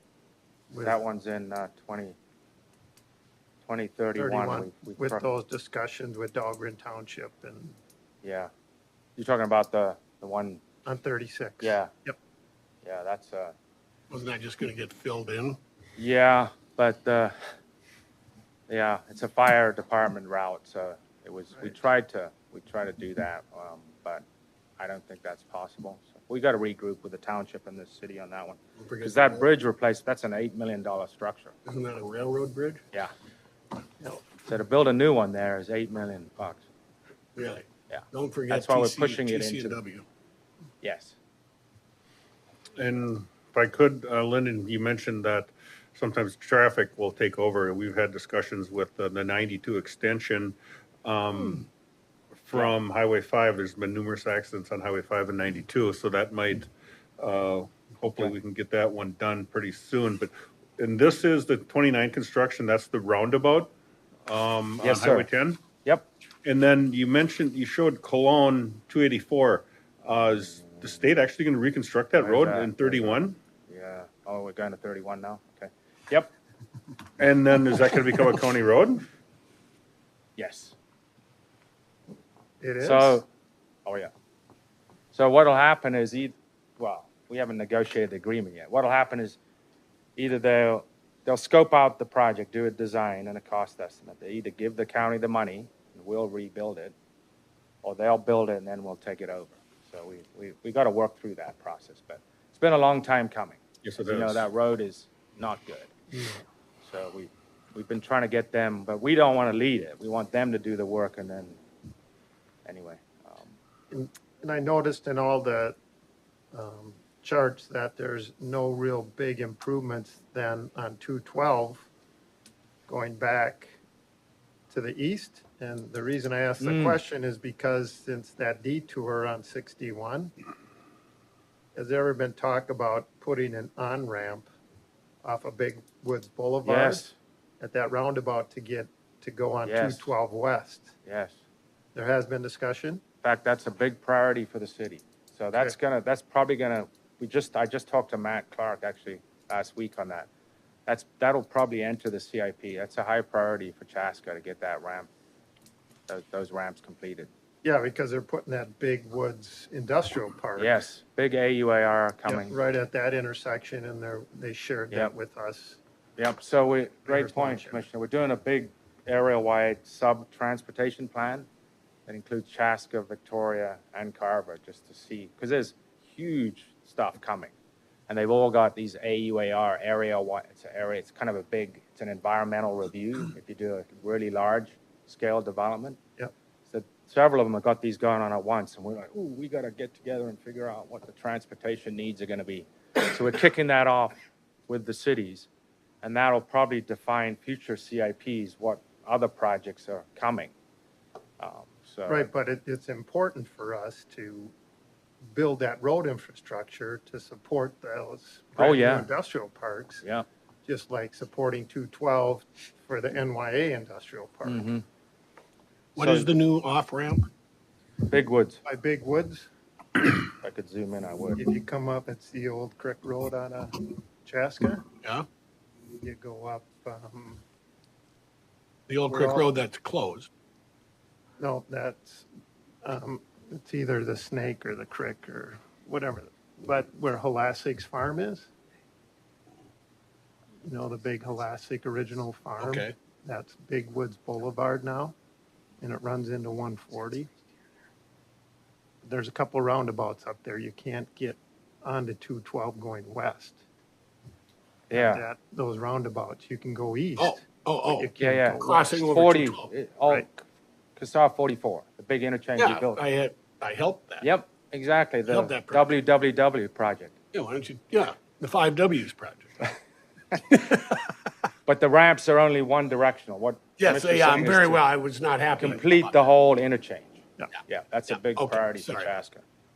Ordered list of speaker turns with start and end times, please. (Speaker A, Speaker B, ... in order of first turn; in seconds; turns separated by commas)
Speaker A: 0.7-1.0, Speaker B: 0.8-2.1, Speaker B: 3.6-5.2, Speaker A: 4.1-7.8, Speaker B: 8.2-8.5, Speaker B: 9.2-10.6, Speaker A: 10.8-12.2, Speaker B: 11.6-11.9, Speaker B: 12.8-13.5, Speaker C: 14.1-15.6, Speaker B: 16.0-17.3, Speaker B: 18.7-24.2, Speaker B: 24.8-31.5, Speaker C: 28.8-29.5, Speaker C: 31.6-32.8, Speaker B: 34.5-36.6, Speaker C: 37.4-40.0, Speaker B: 37.9-39.8, Speaker B: 40.8-41.1, Speaker D: 42.8-51.7, Speaker D: 52.5-63.7, Speaker D: 64.2-65.6, Speaker B: 64.8-65.3, Speaker D: 66.4-73.3, Speaker B: 72.2-76.3, Speaker D: 77.2-79.1, Speaker B: 80.4-80.7, Speaker A: 82.6-83.2, Speaker B: 82.8-83.2, Speaker B: 83.8-84.1, Speaker B: 85.1-89.4, Speaker B: 90.2-96.9, Speaker B: 97.8-105.9, Speaker D: 103.8-104.5, Speaker A: 106.1-106.4, Speaker B: 106.8-111.6, Speaker B: 112.7-113.5, Speaker A: 113.9-115.8, Speaker A: 116.5-121.9, Speaker A: 122.9-123.8, Speaker A: 124.7-130.3, Speaker B: 126.6-127.0, Speaker A: 131.7-134.5, Speaker A: 135.2-137.0, Speaker B: 136.6-137.1, Speaker A: 137.6-140.9, Speaker B: 139.7-140.1, Speaker B: 141.1-141.3, Speaker A: 141.9-143.0, Speaker B: 143.2-150.3, Speaker B: 150.9-155.1, Speaker B: 156.1-157.3, Speaker A: 157.6-160.8, Speaker B: 160.6-162.5, Speaker A: 162.3-165.8, Speaker B: 166.2-171.5, Speaker A: 167.1-167.8, Speaker B: 172.1-177.5, Speaker B: 178.1-186.0, Speaker B: 186.7-195.5, Speaker B: 196.0-200.5, Speaker B: 201.4-202.3, Speaker A: 202.1-204.5, Speaker A: 205.3-210.0, Speaker B: 208.6-209.1, Speaker A: 210.7-214.7, Speaker B: 214.4-214.8, Speaker C: 215.9-217.3, Speaker B: 216.0-216.3, Speaker B: 218.0-218.6, Speaker A: 218.6-219.5, Speaker B: 220.3-221.4, Speaker A: 221.3-224.8, Speaker C: 225.0-225.3, Speaker A: 226.0-227.4, Speaker C: 228.9-230.3, Speaker A: 229.1-229.5, Speaker A: 231.4-232.3, Speaker A: 232.8-238.5, Speaker A: 240.7-245.1, Speaker C: 242.6-242.9, Speaker A: 245.8-247.3, Speaker A: 249.0-253.6, Speaker A: 254.9-259.1, Speaker B: 254.9-255.2, Speaker C: 257.2-259.7, Speaker B: 258.2-260.4, Speaker B: 261.0-263.0, Speaker C: 262.6-264.3, Speaker B: 264.2-267.1, Speaker C: 265.2-265.9, Speaker C: 267.3-269.7, Speaker C: 270.5-271.0, Speaker B: 271.6-274.8, Speaker C: 273.8-276.3, Speaker B: 275.6-279.4, Speaker C: 278.1-279.2